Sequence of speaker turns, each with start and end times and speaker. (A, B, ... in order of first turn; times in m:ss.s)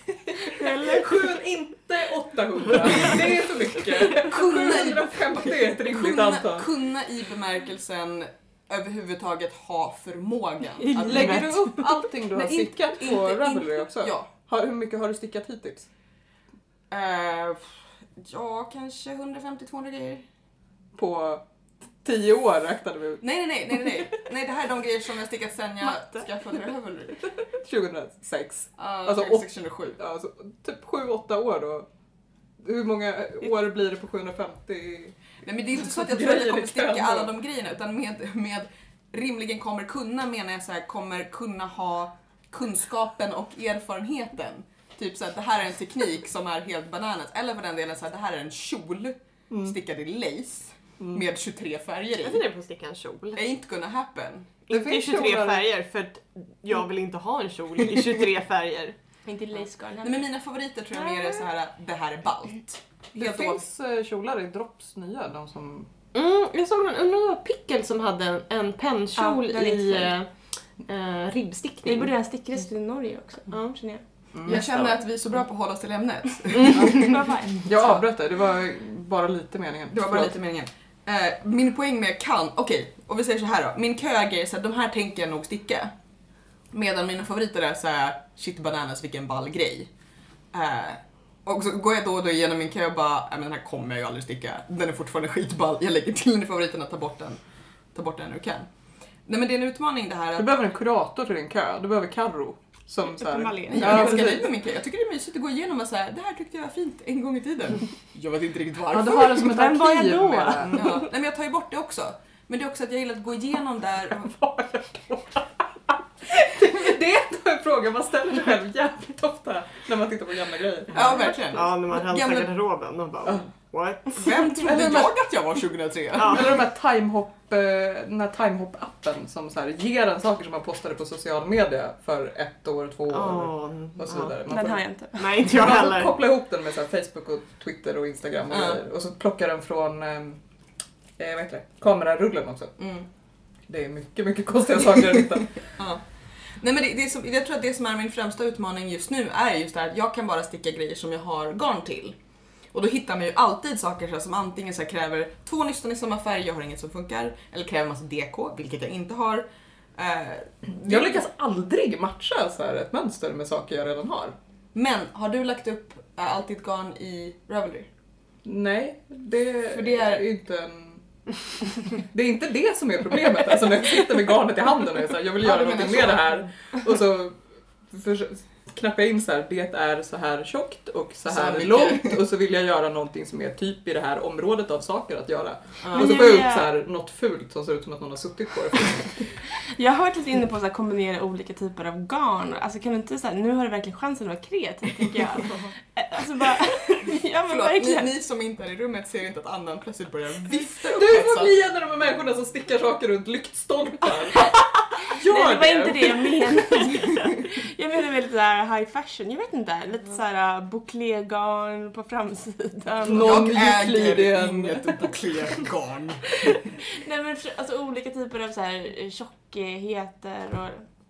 0:00.5-0:01.2 A
0:00.5-0:06.7 B
0:04.1-0:11.8 C
0:10.8-0:11.4 A
0:11.0-0:15.9 B
0:12.3-0:14.3 C
0:16.9-0:20.2 C
0:21.0-0:21.4 B
0:22.0-0:23.2 B
0:23.2-0:27.3 C
0:27.6-0:31.9 B
0:28.8-0:30.0 C
0:32.6-0:35.2 B
0:35.4-0:52.4 C
0:35.8-0:37.3 B
0:49.5-0:49.8 B
0:52.2-0:53.4 D
0:53.4-0:54.6 C
0:54.7-0:59.0 D
0:54.7-0:55.7 B
0:59.3-1:00.2 A
1:00.0-1:03.6 C
1:03.2-1:05.9 B
1:06.1-1:10.3 D
1:09.2-1:10.1 A
1:10.9-1:12.1 D
1:11.8-1:14.8 A
1:13.5-1:13.8 D
1:14.3-1:14.6 B
1:14.4-1:17.2 C
1:16.5-1:17.0 D
1:16.7-1:20.3 B
1:16.8-1:17.9 A
1:19.9-1:25.9 C
1:26.7-1:29.9 C
1:30.5-1:37.4 C
1:37.9-1:38.7 C
1:39.3-1:40.5 C
1:40.4-1:44.5 B
1:43.3-1:44.0 A
1:43.4-1:49.6 C
1:48.9-1:51.0 B
1:49.4-1:51.0 A
1:50.6-1:54.3 C
1:54.2-2:01.3 B
2:00.9-2:02.5 C
2:01.4-2:04.5 D
2:04.2-2:06.4 C
2:04.6-2:05.1 B
2:06.2-2:20.4 B
2:13.1-2:14.4 D
2:14.5-2:15.4 A
2:15.2-2:16.2 D
2:18.5-2:18.8 C
2:21.2-2:22.8 B
2:22.8-2:23.1 C
2:23.7-2:25.7 B
2:25.8-2:26.0 C
2:26.6-2:32.2 C
2:32.7-2:41.2 C
2:40.8-2:44.4 B
2:44.7-2:47.9 C
2:48.4-2:51.0 B
2:49.7-2:50.3 C
2:52.0-2:57.4 B
2:55.4-2:56.4 C
2:57.9-3:09.3 B
3:01.3-3:02.2 C
3:05.8-3:06.4 C
3:05.9-3:06.7 A
3:09.7-3:18.1 A
3:17.5-3:21.6 C
3:20.8-3:26.4 B
3:25.1-3:33.5 A
3:33.1-3:35.0 B
3:33.1-3:36.6 C
3:36.4-3:40.9 A